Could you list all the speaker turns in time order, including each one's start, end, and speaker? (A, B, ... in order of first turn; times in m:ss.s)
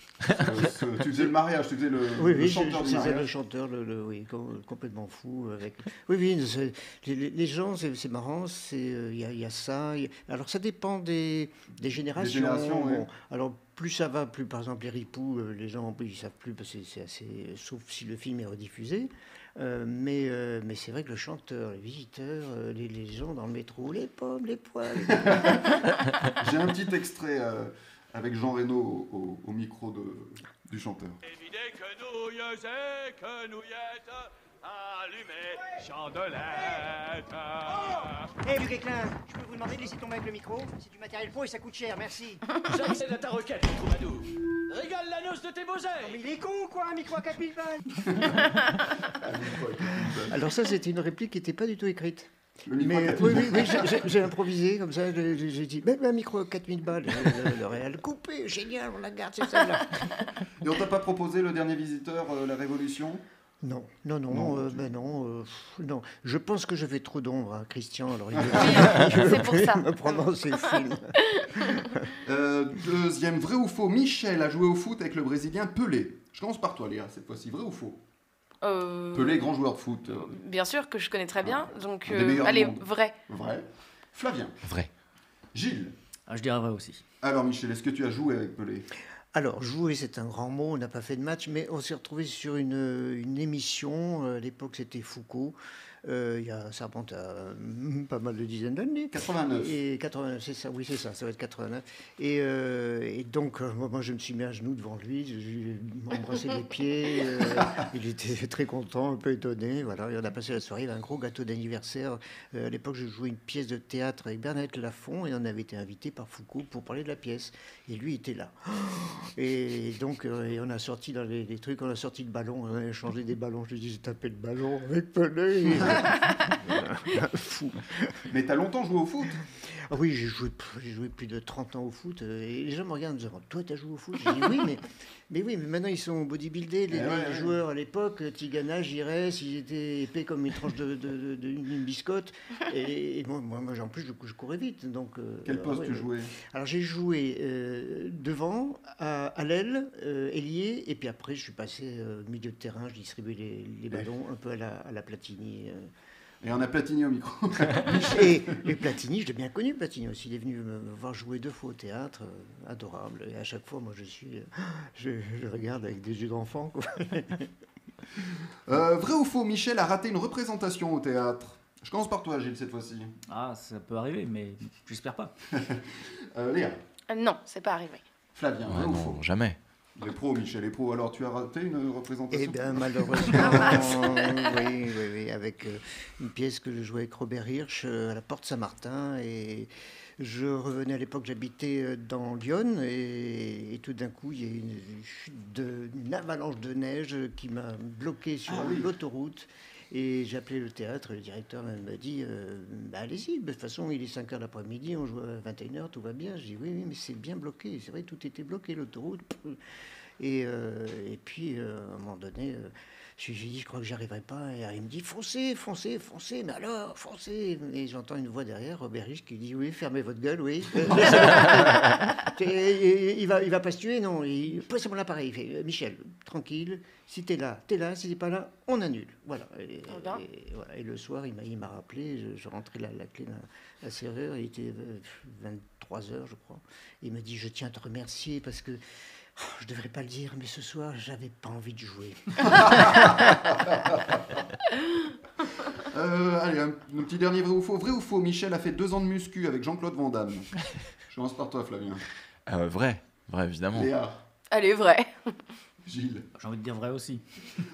0:00.3-0:03.3 A
0:02.1-0:25.7 B
0:12.2-0:13.0 A
0:25.1-0:25.8 A
0:26.4-0:31.2 A
0:31.2-0:38.3 C
0:37.9-0:42.4 D
0:42.6-0:46.2 C
0:46.0-0:47.8 D
0:48.0-0:50.4 A
0:50.2-1:00.2 B
0:52.7-0:54.1 A
1:00.6-1:03.2 A
1:03.6-1:12.1 B
1:04.3-1:04.9 A
1:08.3-1:09.2 A
1:08.5-1:10.1 E
1:12.2-1:18.0 A
1:18.6-1:19.4 E
1:19.1-1:20.3 A
1:20.1-1:23.2 E
1:21.4-1:24.6 A
1:24.6-1:24.9 F
1:25.5-1:25.9 A
1:26.3-1:27.0 G
1:27.2-1:28.8 A
1:29.3-2:08.2 B
1:39.1-1:39.7 A
2:05.8-2:06.1 A
2:08.3-2:09.4 A
2:09.7-2:35.9 B
2:16.9-2:17.5 A
2:25.4-2:26.3 A
2:36.4-2:38.4 A
2:37.9-2:47.5 B
2:48.7-2:53.1 A
2:53.3-2:55.3 G
2:55.5-2:56.8 A
2:57.1-2:58.0 E
2:58.3-2:59.2 A
2:58.6-2:59.6 F
3:00.0-3:04.2 A
3:02.3-3:29.6 B
3:18.5-3:18.9 A
3:30.2-3:58.8 B
3:49.9-3:50.2 E
3:59.4-4:03.2 B
4:02.4-4:04.4 A
4:05.8-4:10.5 A
4:11.1-4:12.0 A
4:12.5-4:13.9 F
4:13.7-4:14.2 A
4:14.5-4:15.3 E
4:15.8-4:16.2 A
4:16.4-4:17.2 G